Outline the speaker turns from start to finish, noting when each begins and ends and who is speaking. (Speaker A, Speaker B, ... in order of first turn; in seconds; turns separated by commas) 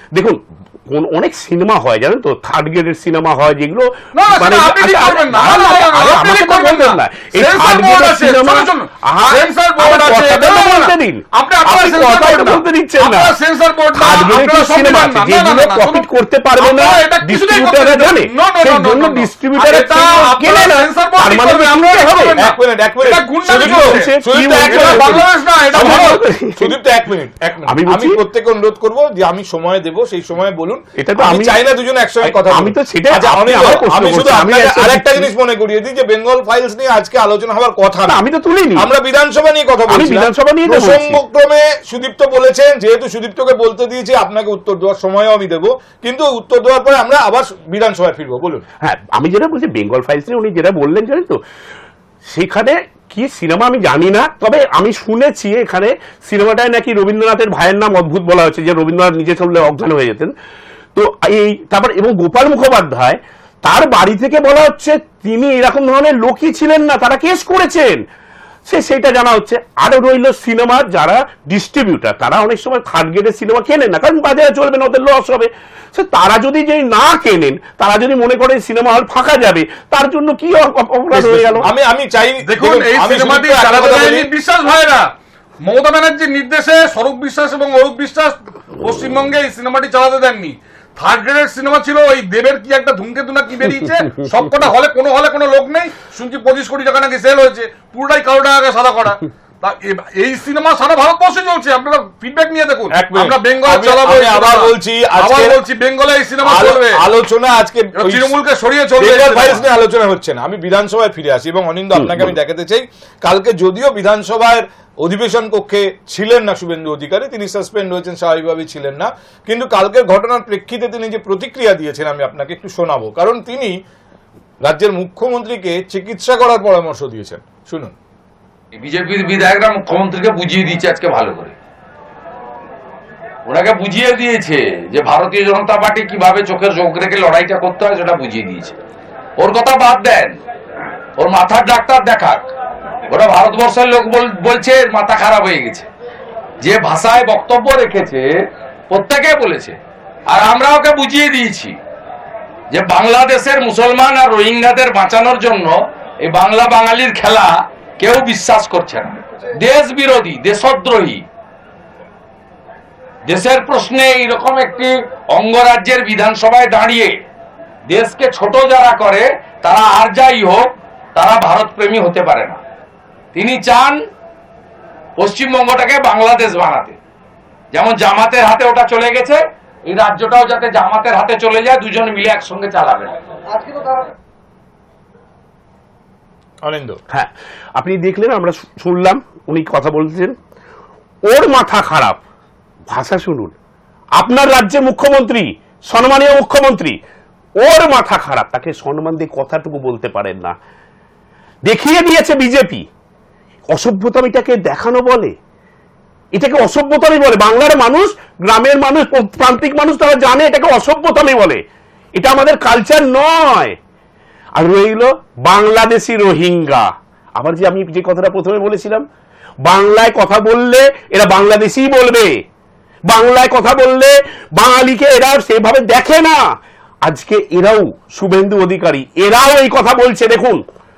Speaker A: 0.1-13.3, Speaker B: 4.1-16.1, Speaker A: 13.9-22.4, Speaker B: 16.6-24.1, Speaker C: 22.4-38.2, Speaker A: 23.5-26.8, Speaker B: 24.7-26.2, Speaker A: 27.7-28.2, Speaker A: 31.0-31.6, Speaker A: 32.2-35.3, Speaker A: 38.1-38.9, Speaker C: 38.8-48.6, Speaker A: 39.9-41.2, Speaker A: 48.8-51.4, Speaker A: 52.3-60.3, Speaker A: 61.0-68.0, Speaker A: 68.7-81.7, Speaker C: 81.1-84.3, Speaker B: 82.4-85.1, Speaker B: 85.6-107.0, Speaker C: 102.9-105.6, Speaker C: 106.5-108.3, Speaker B: 108.0-109.7, Speaker C: 109.0-123.8, Speaker A: 112.0-112.3, Speaker C: 124.7-127.9, Speaker D: 128.8-131.5, Speaker D: 133.5-138.8, Speaker D: 139.4-140.4, Speaker D: 141.2-142.5, Speaker D: 143.1-145.9, Speaker D: 146.6-148.3, Speaker D: 148.9-149.8, Speaker D: 150.3-151.8, Speaker D: 152.7-161.2, Speaker D: 163.3-167.2, Speaker D: 167.9-172.6, Speaker D: 173.3-174.0, Speaker D: 175.2-177.0, Speaker D: 177.7-183.2, Speaker C: 186.6-187.0, Speaker A: 187.1-190.4, Speaker A: 191.3-192.2, Speaker A: 192.9-193.5, Speaker A: 194.2-197.0, Speaker A: 197.6-200.6, Speaker A: 201.7-202.9, Speaker A: 203.7-205.3, Speaker A: 206.3-211.6, Speaker A: 212.2-213.8, Speaker A: 214.6-219.1, Speaker A: 219.7-222.4, Speaker A: 223.1-230.6